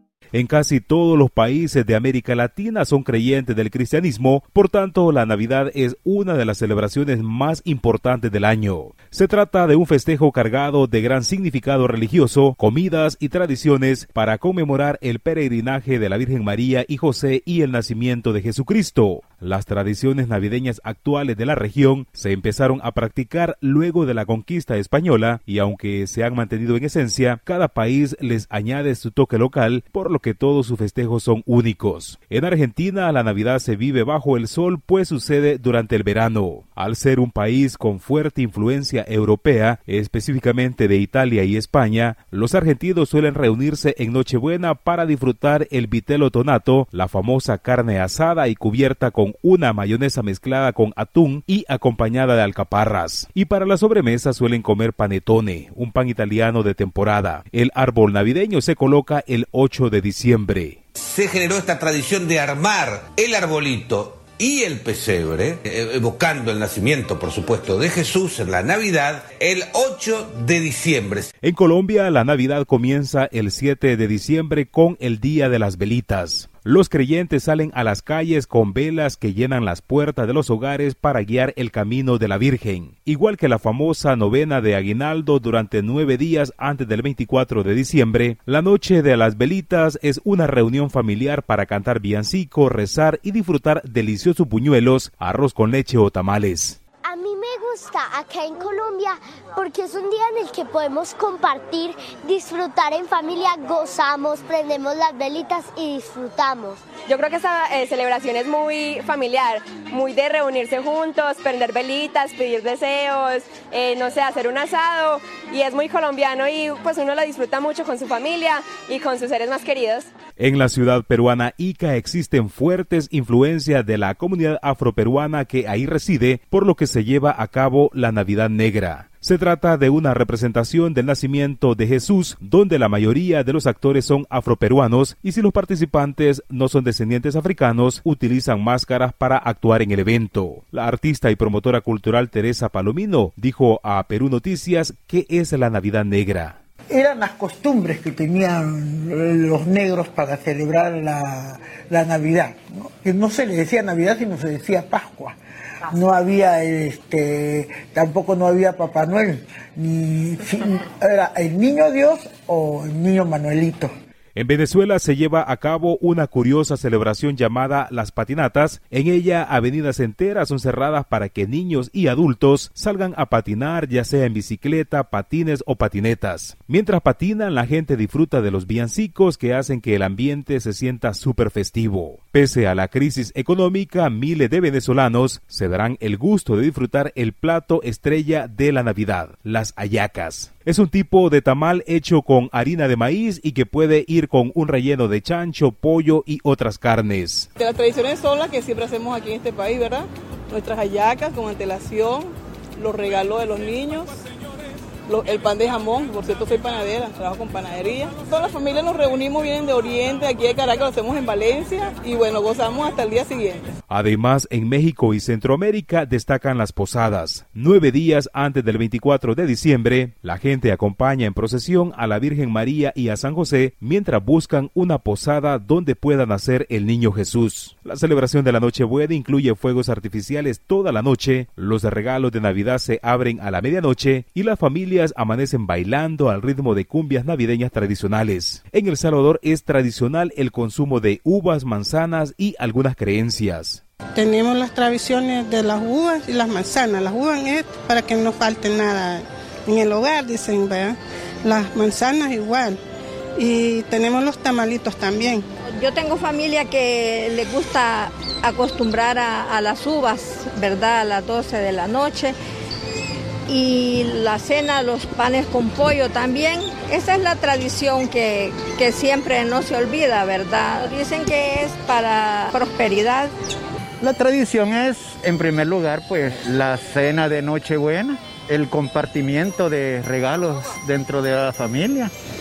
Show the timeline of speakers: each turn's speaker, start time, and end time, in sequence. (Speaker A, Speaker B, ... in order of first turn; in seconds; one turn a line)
Speaker A: 0.3-60.8
Speaker B: 61.0-71.3
Speaker A: 71.4-96.8
Speaker C: 97.0-106.8
Speaker D: 107.0-120.1
Speaker A: 120.4-146.6
Speaker E: 146.9-155.3
Speaker E: 155.9-163.9
Speaker A: 164.3-197.5
Speaker F: 197.6-204.1
Speaker F: 205.1-213.7
Speaker A: 213.9-243.8
Speaker G: 244.1-252.8
Speaker G: 253.4-255.4
Speaker H: 255.7-262.4
Speaker H: 263.5-273.3
Speaker I: 274.0-282.1